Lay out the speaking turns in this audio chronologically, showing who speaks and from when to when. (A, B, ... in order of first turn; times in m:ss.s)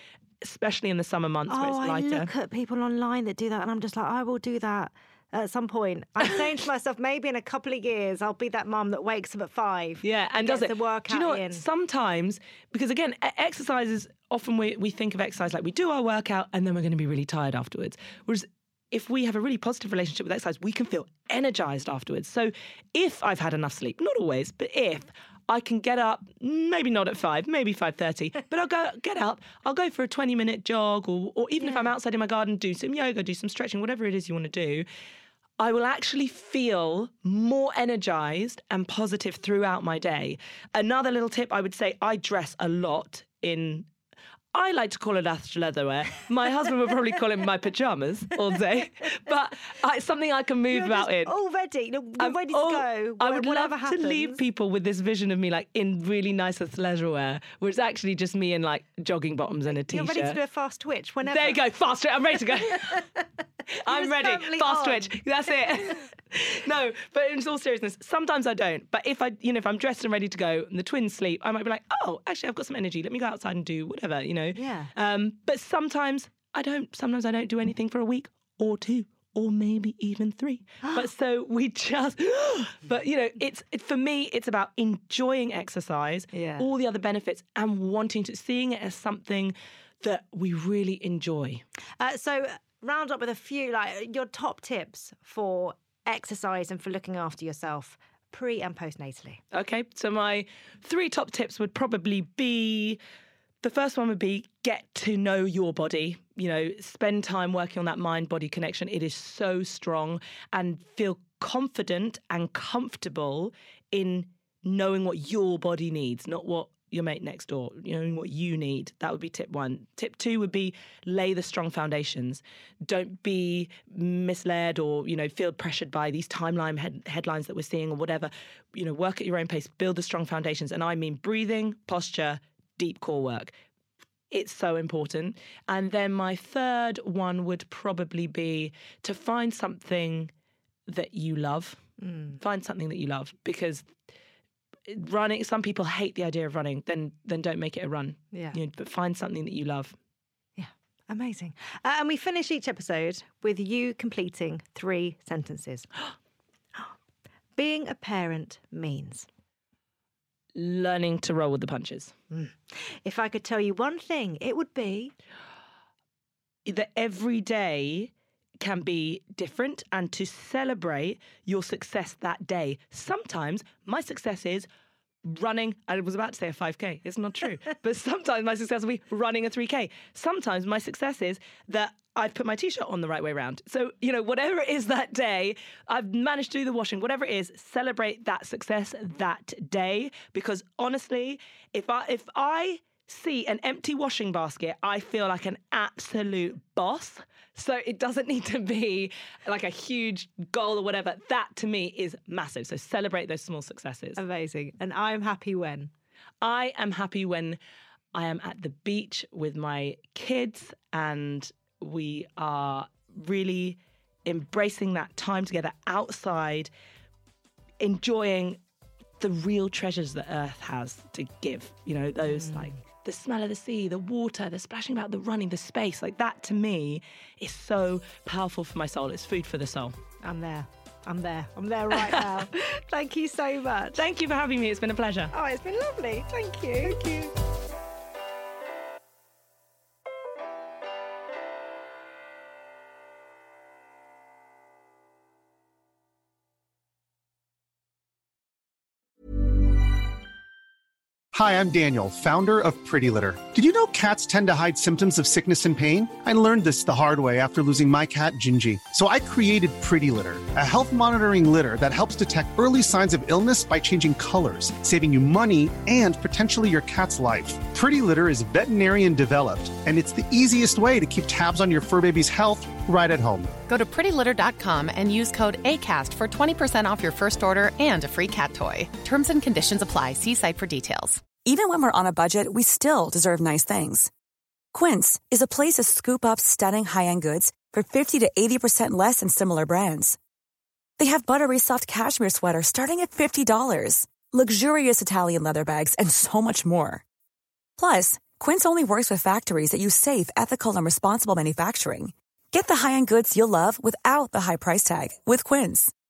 0:00.4-0:02.3 A
0:01.5-0:11.6 B
0:10.0-0:34.8 A
0:35.6-0:43.9 A
0:44.5-0:51.3 A
0:50.7-0:54.4 B
0:52.2-1:00.4 A
0:59.7-1:01.6 B
1:01.2-1:03.0 A
1:03.8-1:31.6 A
1:03.9-1:05.2 B
1:14.5-1:14.9 B
1:26.3-1:26.7 B
1:32.0-1:39.4 B
1:39.5-1:43.0 A
1:43.6-2:13.5 A
2:14.3-2:20.3 A
2:20.9-2:21.8 A
2:22.0-2:22.4 B
2:22.4-2:23.9 A
2:24.9-2:29.9 A
2:30.6-2:35.9 B
2:37.6-2:39.3 B
2:40.5-2:42.1 A
2:42.3-2:45.1 B
2:46.6-2:54.7 A
2:55.2-3:24.2 A
3:24.2-3:25.9 B
3:26.4-3:27.6 A
3:28.1-3:36.7 A
3:37.8-3:38.6 A
3:39.2-3:49.9 A
3:42.3-3:42.7 B
3:50.2-3:54.0 B
3:51.9-3:52.4 A
3:53.9-3:55.3 A
3:55.3-3:57.3 B
4:11.3-4:33.6 C
4:33.6-4:41.2 D
4:41.4-4:44.1 E
4:44.7-4:50.2 E
4:51.0-4:57.0 E
4:57.8-5:05.9 E